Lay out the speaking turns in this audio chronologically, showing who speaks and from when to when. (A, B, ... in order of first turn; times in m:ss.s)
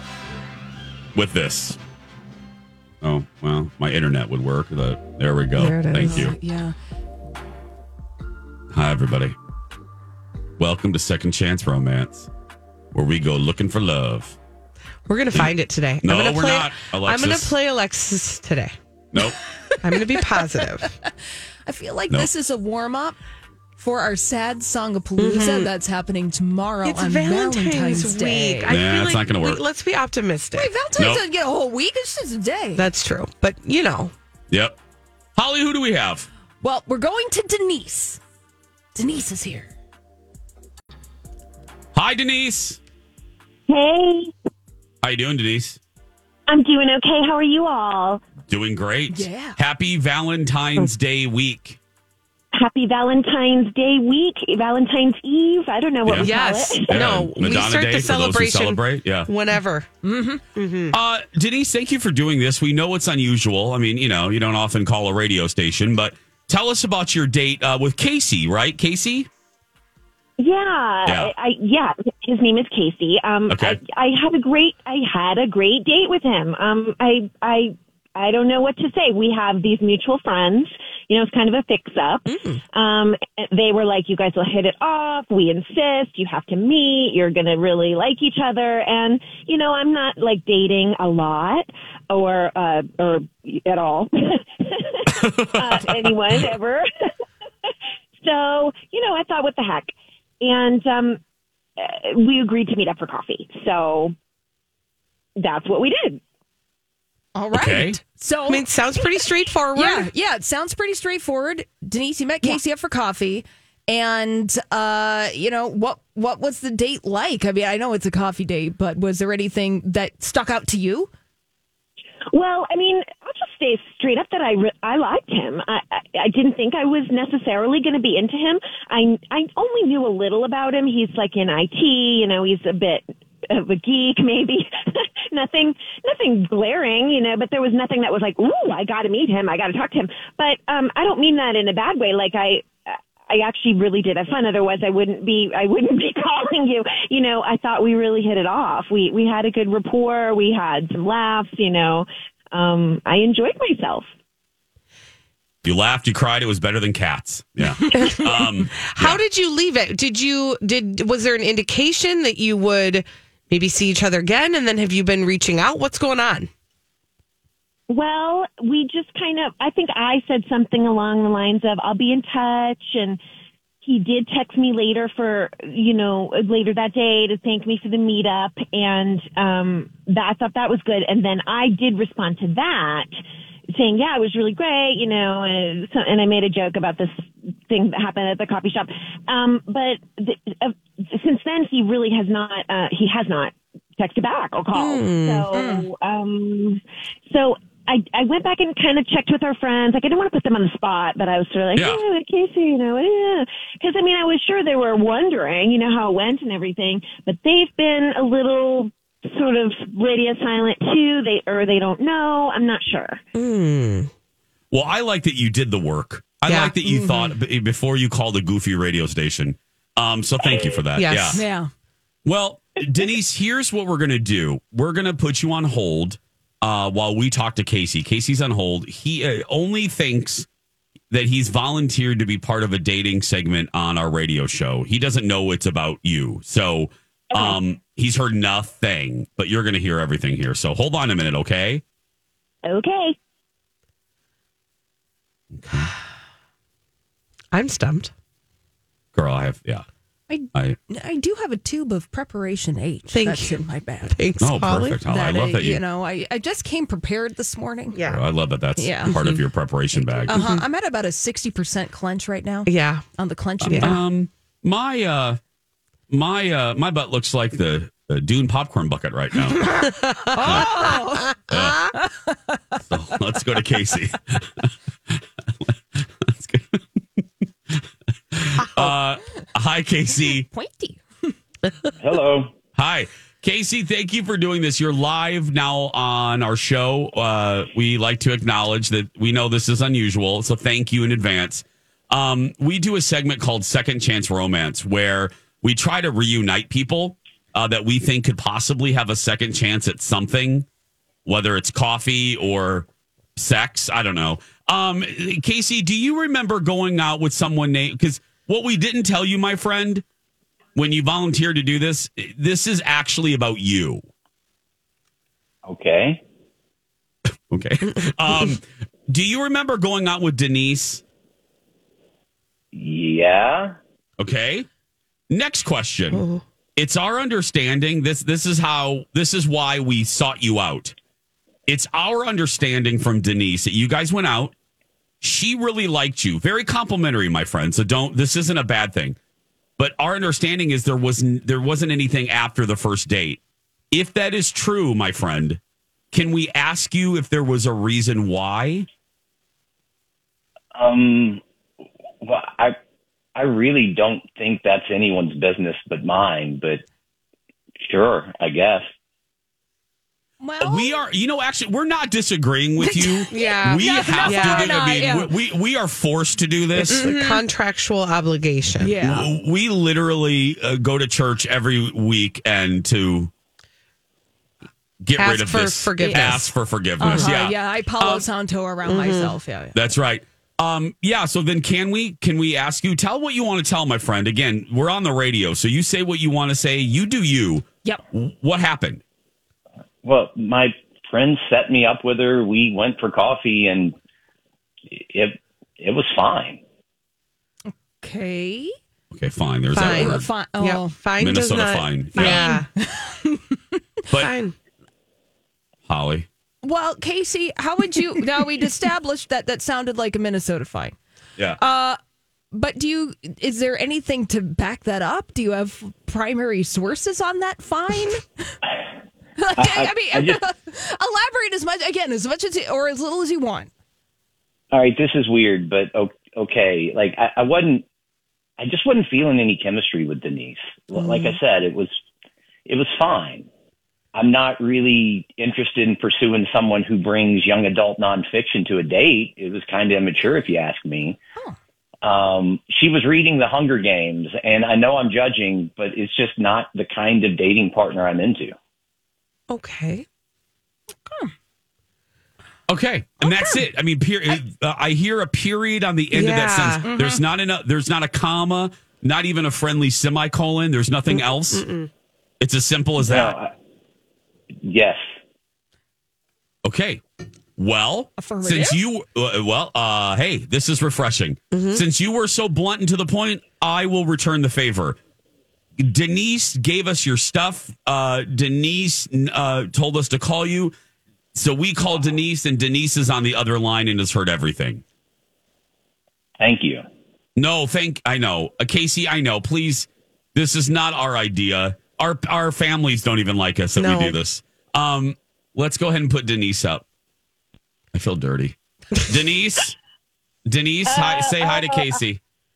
0:01.1-0:01.8 A
0:03.0-0:06.3 A
0:05.5-0:06.3 B
0:06.0-0:06.7 C
0:08.7-0:09.4 A
0:10.6-0:12.3 A
0:12.9-0:14.4 A
0:15.1-0:18.7 B
0:15.3-0:17.5 A
0:19.1-0:19.4 A
0:19.8-0:20.9 B
0:21.6-0:23.2 C
0:23.8-0:28.8 C
0:25.2-0:25.7 B
0:26.8-0:30.7 B
0:28.7-0:29.6 A
0:30.5-0:32.9 C
0:31.0-0:31.2 A
0:32.8-0:34.1 B
0:34.5-0:34.8 A
0:35.4-0:36.3 A
0:36.6-0:38.2 C
0:38.9-0:39.7 C
0:41.9-0:42.8 A
0:43.7-0:44.3 D
0:45.0-0:45.8 A
0:46.5-0:48.2 D
0:48.5-0:51.8 A
0:49.1-0:49.6 C
0:52.5-0:57.1 D
0:56.0-0:56.3 A
0:56.2-0:59.9 B
0:56.9-0:59.3 A
1:00.0-1:00.4 C
1:00.5-1:01.0 B
1:00.9-1:09.3 A
1:10.4-1:36.8 D
1:11.0-1:11.3 A
1:13.5-1:13.8 A
1:22.3-1:22.6 B
1:35.2-1:35.9 A
1:37.6-1:41.2 D
1:41.8-1:44.1 D
1:45.4-1:46.2 D
1:47.3-1:48.6 C
1:47.5-1:48.0 A
1:48.5-1:50.1 B
1:49.7-2:01.1 C
2:02.3-2:34.1 D
2:35.6-2:39.2 A
2:38.8-2:46.5 B
2:47.9-2:53.2 D
2:53.8-3:03.1 D
3:03.7-3:33.2 D
3:14.7-3:15.5 B
3:15.6-3:15.9 C
3:21.8-3:22.0 A
3:33.3-3:34.1 B
3:34.7-3:41.4 A
3:36.5-3:36.7 B
3:36.8-3:37.3 C
3:41.0-3:41.4 B
3:41.3-3:41.7 C
3:42.2-3:50.5 A
3:51.1-4:01.8 A
3:57.3-3:57.6 D
4:02.6-4:03.2 D
4:05.5-4:05.9 A
4:07.5-4:08.1 B
4:09.1-4:09.8 A
4:10.3-4:14.2 C
4:13.1-4:15.0 B
4:14.4-4:15.8 A
4:15.0-4:18.1 C
4:17.9-4:18.2 B
4:18.1-4:20.5 A
4:18.8-4:19.1 C
4:19.1-4:19.4 B
4:20.3-4:20.6 B
4:20.3-4:24.0 C
4:22.6-4:23.0 B
4:23.6-4:25.4 A
4:23.7-4:24.0 B
4:26.1-4:29.7 A
4:29.8-4:32.8 C
4:30.4-4:30.8 A
4:31.5-4:31.9 A
4:32.8-4:34.7 A
4:35.6-4:37.2 A
4:37.7-4:40.5 A
4:40.3-4:41.3 C
4:42.0-4:42.5 E
4:42.7-5:00.6 A
5:01.2-5:10.0 A
5:10.7-5:14.0 A
5:15.6-5:16.2 E
5:17.5-5:21.0 A
5:22.7-5:23.7 E
5:24.2-5:24.6 A
5:25.3-5:26.2 A
5:26.1-5:26.4 B
5:26.8-5:30.9 A
5:31.7-5:34.5 A
5:35.2-5:39.2 A
5:39.8-5:45.6 A
5:46.1-5:48.8 A
5:50.7-5:51.4 E
5:52.2-5:52.7 E
5:53.4-5:56.8 E
5:57.8-5:58.8 E
6:00.4-6:01.0 C
6:00.6-6:07.1 A
6:02.8-6:05.3 C
6:03.3-6:04.7 B
6:06.7-6:08.9 B
6:06.9-6:07.4 C
6:08.8-6:09.3 C
6:09.0-6:13.3 A
6:15.0-6:18.2 A
6:15.2-6:16.5 B
6:16.0-6:16.3 C
6:17.0-6:19.8 C
6:18.8-6:19.4 B
6:19.7-6:29.0 A
6:30.0-6:34.0 E
6:34.9-6:36.6 E
6:38.0-6:38.7 C
6:39.1-6:40.3 A
6:39.7-6:42.7 B
6:39.8-6:40.9 C
6:41.2-6:42.4 A
6:42.2-6:43.8 C
6:44.2-6:44.5 B
6:45.9-6:46.3 A
6:46.6-6:51.0 C
6:51.6-6:52.0 C
6:52.5-6:58.6 C
6:59.4-7:03.7 C
6:59.6-7:00.4 E
7:04.7-7:07.8 E
7:08.6-7:11.9 E
7:11.0-7:11.4 C
7:12.6-7:13.5 E
7:14.1-7:21.2 E
7:22.0-7:28.5 E
7:29.5-7:30.0 B
7:32.7-7:41.6 A
7:33.2-7:33.6 C
7:36.1-7:36.8 B
7:36.9-7:37.2 C
7:41.1-7:41.9 B
7:42.4-7:43.3 A
7:43.0-7:43.5 E
7:44.6-7:45.0 E
7:46.6-7:47.0 A
7:47.6-7:55.0 A
7:48.2-7:48.8 C
7:51.5-7:51.8 B
7:55.8-8:00.7 A
8:01.3-8:04.8 A
8:06.4-8:06.8 E
8:07.4-8:16.8 A
8:13.8-8:14.2 B
8:17.9-8:19.8 A
8:20.5-8:22.2 A
8:20.8-8:22.0 D